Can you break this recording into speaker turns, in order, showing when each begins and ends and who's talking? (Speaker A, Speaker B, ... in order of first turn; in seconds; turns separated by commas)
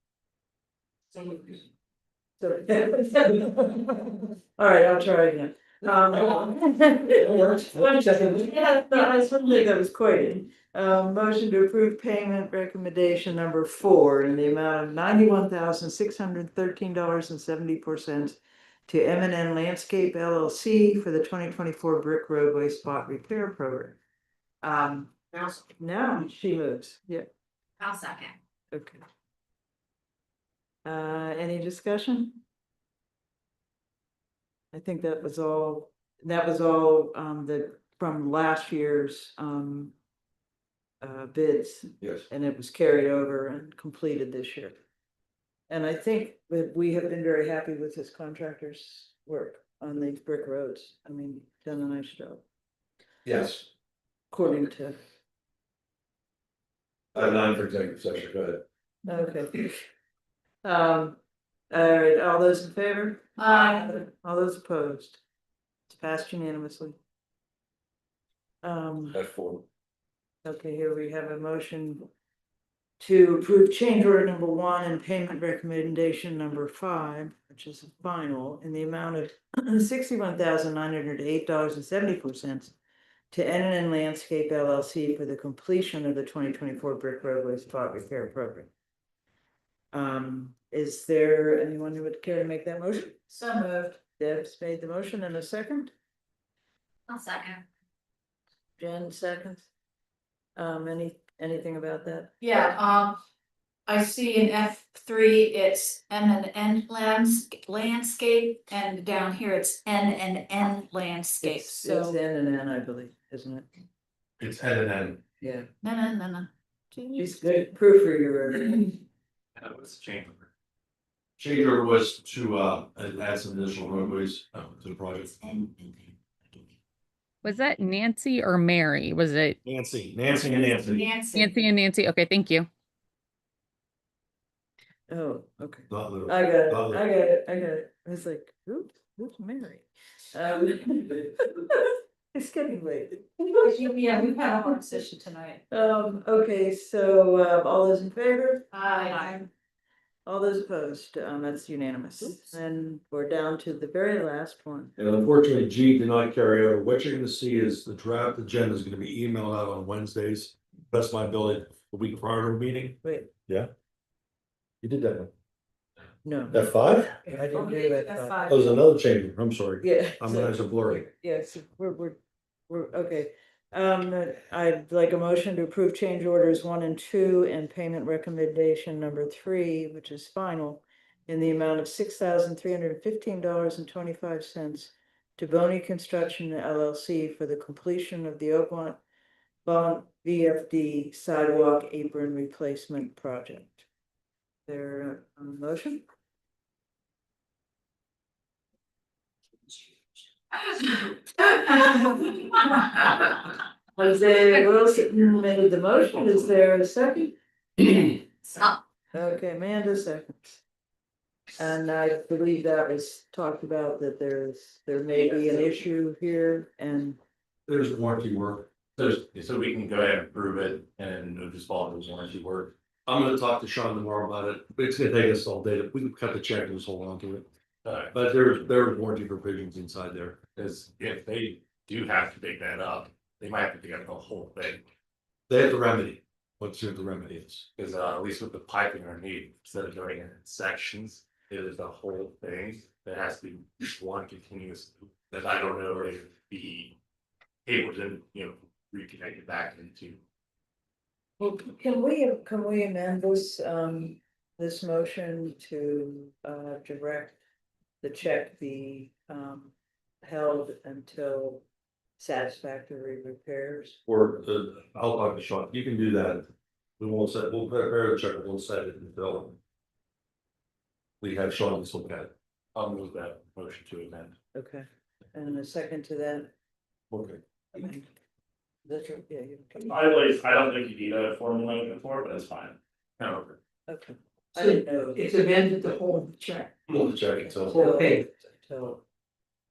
Speaker A: 1.1-1.6, Speaker A: 2.4-24.0, Speaker A: 24.6-27.3, Speaker B: 27.8-28.3, Speaker A: 28.7-29.0, Speaker A: 30.8-32.4, Speaker A: 34.7-39.9, Speaker A: 41.0-44.8, Speaker C: 42.0-42.2, Speaker A: 45.7-52.4, Speaker C: 53.2-53.7, Speaker A: 54.3-55.0, Speaker C: 57.1-58.6, Speaker A: 59.0-59.7, Speaker A: 60.6-61.2, Speaker A: 61.7-65.2, Speaker B: 63.4-63.9, Speaker A: 65.9-67.0, Speaker A: 68.6-69.2, Speaker C: 69.1-69.6, Speaker A: 70.4-72.1, Speaker A: 73.0-82.7, Speaker A: 83.3-88.7, Speaker A: 89.9-93.2, Speaker B: 93.3-94.0, Speaker A: 94.2-95.9, Speaker B: 97.1-97.6, Speaker A: 98.8-99.7, Speaker A: 100.5-102.3, Speaker B: 102.4-103.2, Speaker B: 103.9-112.2, Speaker A: 111.4-113.7, Speaker C: 114.4-115.2, Speaker A: 115.4-115.7, Speaker B: 115.8-117.3, Speaker A: 117.2-119.0, Speaker D: 119.5-120.5, Speaker C: 121.4-125.6, Speaker B: 125.5-126.1, Speaker E: 127.4-129.6, Speaker C: 129.6-131.1, Speaker B: 130.3-131.6, Speaker E: 131.3-132.7, Speaker A: 135.1-143.6, Speaker C: 135.9-137.0, Speaker B: 143.5-145.6, Speaker A: 145.7-149.5, Speaker B: 148.7-149.4, Speaker A: 150.2-154.9, Speaker C: 155.0-163.7, Speaker A: 163.0-163.3, Speaker C: 164.8-165.3, Speaker A: 166.2-166.6, Speaker C: 166.5-167.2, Speaker A: 167.2-168.5, Speaker B: 167.5-168.7, Speaker C: 168.5-171.0, Speaker A: 169.8-189.0, Speaker A: 189.6-193.8, Speaker A: 194.7-196.0, Speaker A: 200.7-207.3, Speaker A: 209.1-210.6, Speaker A: 211.5-217.2, Speaker C: 217.7-218.7, Speaker D: 219.0-222.7, Speaker C: 223.1-227.5, Speaker D: 227.8-228.1, Speaker C: 228.1-230.4, Speaker D: 230.5-234.8, Speaker C: 235.5-237.7, Speaker D: 237.8-246.9, Speaker D: 247.7-250.2, Speaker A: 251.4-257.4, Speaker A: 258.0-261.6, Speaker A: 262.2-264.0, Speaker C: 264.1-266.5, Speaker C: 267.0-269.6, Speaker C: 271.2-272.3, Speaker D: 272.7-274.3, Speaker A: 274.5-276.5, Speaker C: 277.1-277.4, Speaker A: 277.7-278.1, Speaker A: 278.8-280.2, Speaker D: 279.9-283.5, Speaker A: 283.9-285.2, Speaker F: 284.5-286.7, Speaker C: 286.9-287.8, Speaker A: 287.4-289.0, Speaker F: 287.7-288.2